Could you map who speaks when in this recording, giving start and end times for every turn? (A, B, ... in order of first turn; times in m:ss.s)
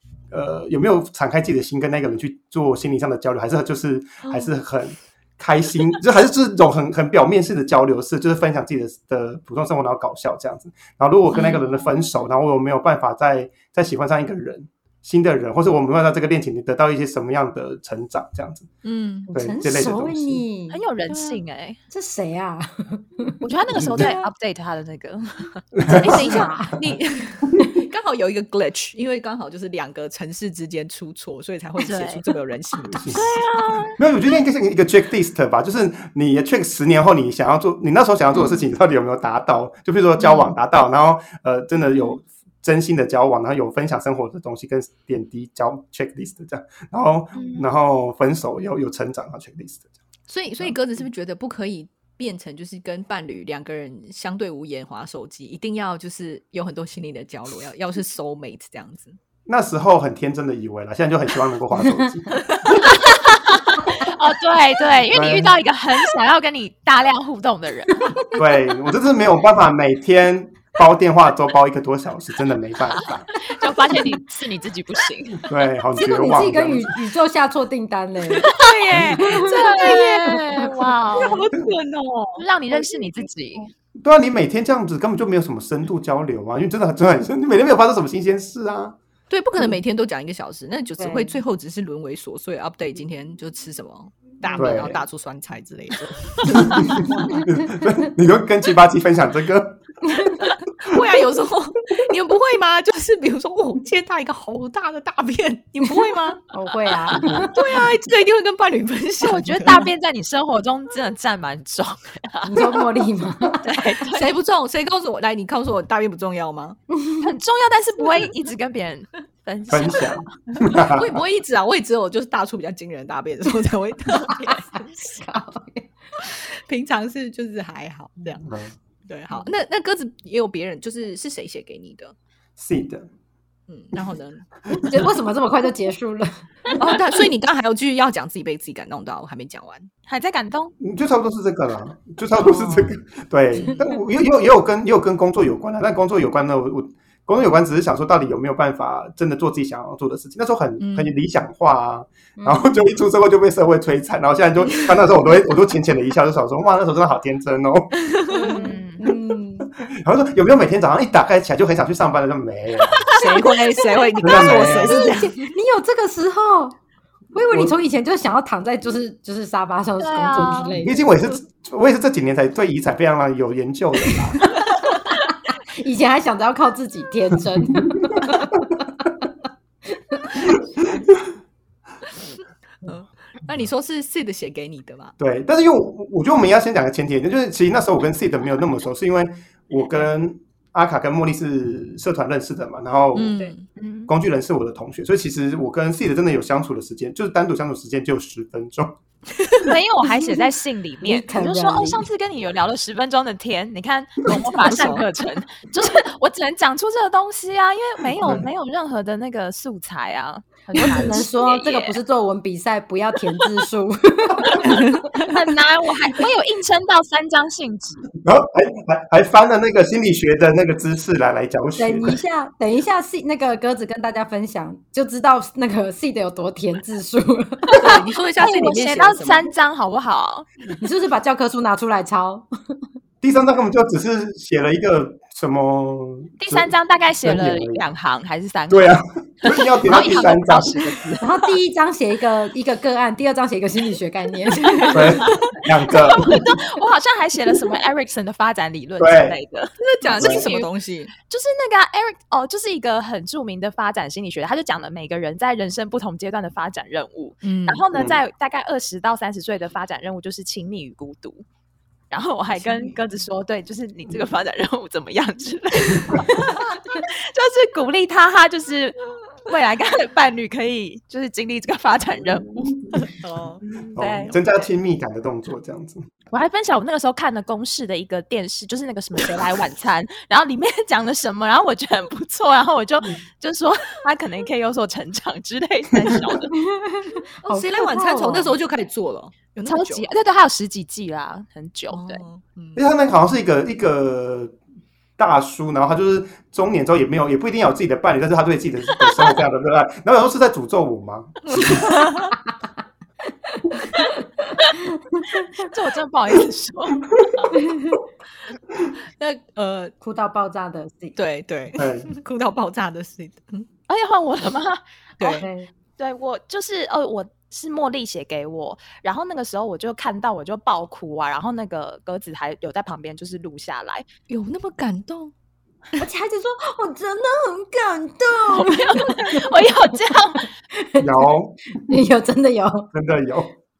0:00.3-0:18.7 A
0:04.2-0:04.5 B
0:11.3-0:11.6 B
0:18.8-0:19.3 B
0:19.3-0:20.8 C
0:19.3-0:20.4 A
0:20.7-0:21.8 D
0:21.1-0:21.4 B
0:21.9-0:23.4 C
0:23.4-0:26.5 D
0:23.8-0:24.1 A
0:24.0-0:24.3 B
0:25.7-0:26.3 A
0:25.9-0:26.8 C
0:26.0-0:33.8 B
0:31.8-0:32.2 D
0:32.9-0:33.2 A
0:33.1-0:34.0 D
0:34.0-0:49.8 A
0:47.3-0:47.7 D
0:50.3-0:59.2 B
0:59.5-1:02.8 A
1:02.8-1:08.1 D
1:05.1-1:05.6 A
1:08.0-1:08.4 C
1:08.3-1:13.3 A
1:13.0-1:15.5 D
1:15.4-1:16.9 A
1:16.0-1:18.5 C
1:18.4-1:21.4 D
1:18.4-1:20.4 B
1:19.1-1:20.7 C
1:21.2-1:23.1 B
1:22.4-1:23.6 D
1:24.0-1:29.0 A
1:29.3-1:37.4 B
1:31.0-1:31.4 C
1:34.4-1:34.9 C
1:34.6-1:35.0 A
1:36.6-1:39.8 A
1:37.1-1:37.8 C
1:40.1-1:40.4 C
1:40.8-1:46.4 B
1:46.5-1:47.6 C
1:47.1-1:49.9 B
1:47.2-1:47.5 A
1:49.2-1:52.8 D
1:52.4-1:53.8 C
1:53.6-1:54.3 D
1:53.6-1:56.8 B
1:56.9-1:57.3 C
1:57.2-2:00.3 D
1:59.7-2:01.2 A
2:00.5-2:05.2 B
2:04.3-2:05.9 C
2:06.2-2:08.5 B
2:08.4-2:08.7 A
2:09.1-2:12.1 B
2:12.6-2:13.1 A
2:13.7-2:14.5 B
2:14.7-2:16.9 C
2:14.7-2:15.0 A
2:16.8-2:19.9 B
2:20.1-2:20.7 D
2:20.8-2:38.0 A
2:22.3-2:22.9 D
2:23.5-2:23.8 B
2:30.8-2:31.1 B
2:32.4-2:32.8 C
2:38.0-2:38.6 B
2:38.3-2:39.7 C
2:38.4-2:39.1 D
2:39.8-2:43.2 A
2:43.0-2:45.5 B
2:43.1-2:46.8 C
2:44.2-2:45.0 A
2:47.3-2:51.0 C
2:47.5-2:47.8 A
2:50.0-2:50.8 D
2:50.7-2:54.6 A
2:54.5-2:59.1 C
2:59.9-3:00.6 C
3:00.5-3:01.2 A
3:02.1-3:05.1 B
3:05.2-3:13.5 A
3:13.1-3:13.6 B
3:13.8-3:14.1 D
3:14.1-3:19.0 A
3:19.4-3:19.6 B
3:19.6-3:32.0 D
3:20.0-3:20.5 C
3:21.0-3:22.0 C
3:24.3-3:25.1 B
3:30.7-3:35.0 C
3:34.4-3:38.1 D
3:34.6-3:35.3 B
3:38.2-3:42.2 A
3:41.8-3:47.9 C
3:47.7-3:50.4 D
3:47.7-3:49.5 B
3:50.7-3:52.4 C
3:53.2-3:57.8 A
3:56.4-4:01.2 D
3:58.7-4:01.2 A
4:01.2-4:05.3 C
4:04.7-4:05.6 B
4:04.9-4:06.5 A
4:05.9-4:10.7 D
4:09.0-4:09.4 A
4:09.8-4:11.1 B
4:10.2-4:10.4 A
4:11.2-4:21.4 D
4:17.4-4:17.8 B
4:17.9-4:18.2 A
4:22.1-4:32.8 D
4:22.6-4:22.9 C
4:33.0-4:33.6 B
4:33.7-4:34.4 D
4:33.9-4:36.0 A
4:36.3-4:46.6 D
4:46.5-4:48.5 C
4:47.4-4:50.1 B
4:49.6-4:52.2 D
4:51.9-4:52.8 B
4:52.8-4:54.6 A
4:55.2-5:01.8 A
5:01.4-5:02.3 B
5:03.5-5:03.8 C
5:04.9-5:05.6 C
5:05.6-5:07.6 D
5:07.6-5:08.0 C
5:09.2-5:09.9 B
5:10.0-5:11.2 C
5:11.2-5:13.7 B
5:11.8-5:12.1 A
5:13.9-5:24.1 D
5:15.2-5:15.5 B
5:15.4-5:15.7 C
5:24.3-5:25.3 B
5:26.0-5:29.5 C
5:28.5-5:30.5 D
5:30.7-5:32.9 C
5:31.0-5:31.8 A
5:32.9-5:33.5 A